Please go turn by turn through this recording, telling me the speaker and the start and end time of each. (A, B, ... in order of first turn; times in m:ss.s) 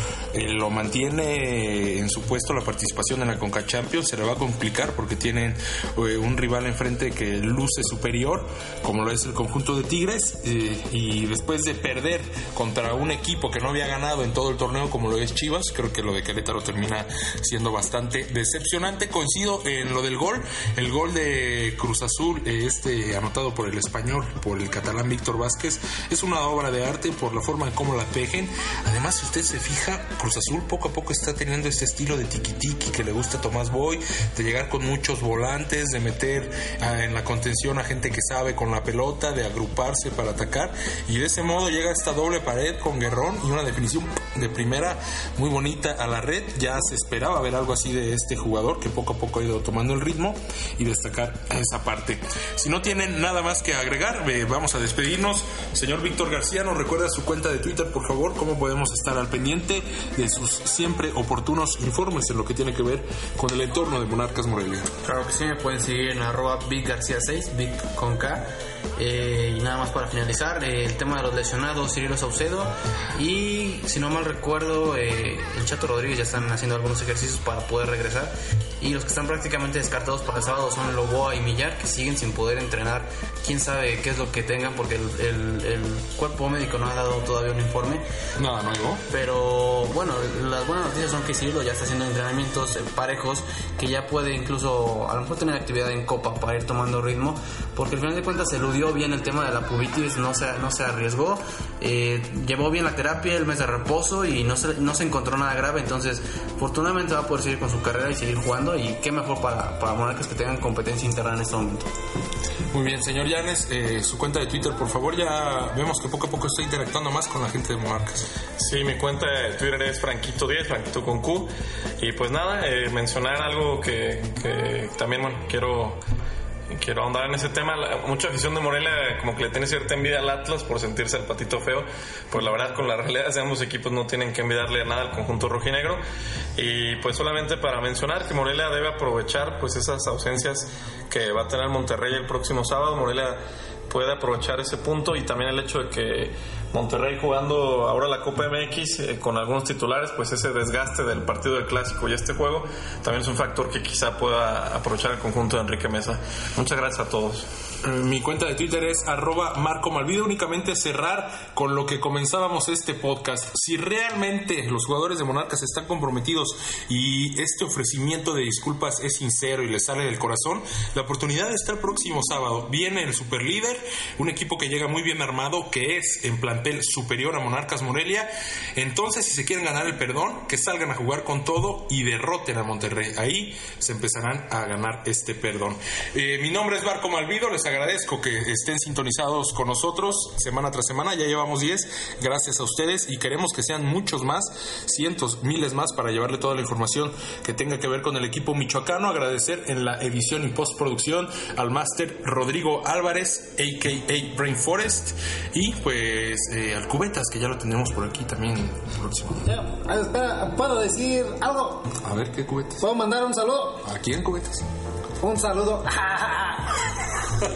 0:00.3-1:04.9 A
1:05.0-1:28.0 B
1:28.4-1:29.0 A
1:29.1-1:51.9 B
1:52.7-1:58.3 A
1:58.6-2:01.5 C
2:02.0-2:06.0 C
2:06.7-2:16.0 C
2:16.6-2:37.4 C
2:37.8-3:29.4 A
3:29.4-3:31.9 D
3:32.0-3:32.8 A
3:32.8-3:33.8 D
3:33.8-3:34.6 A
3:35.2-3:36.7 D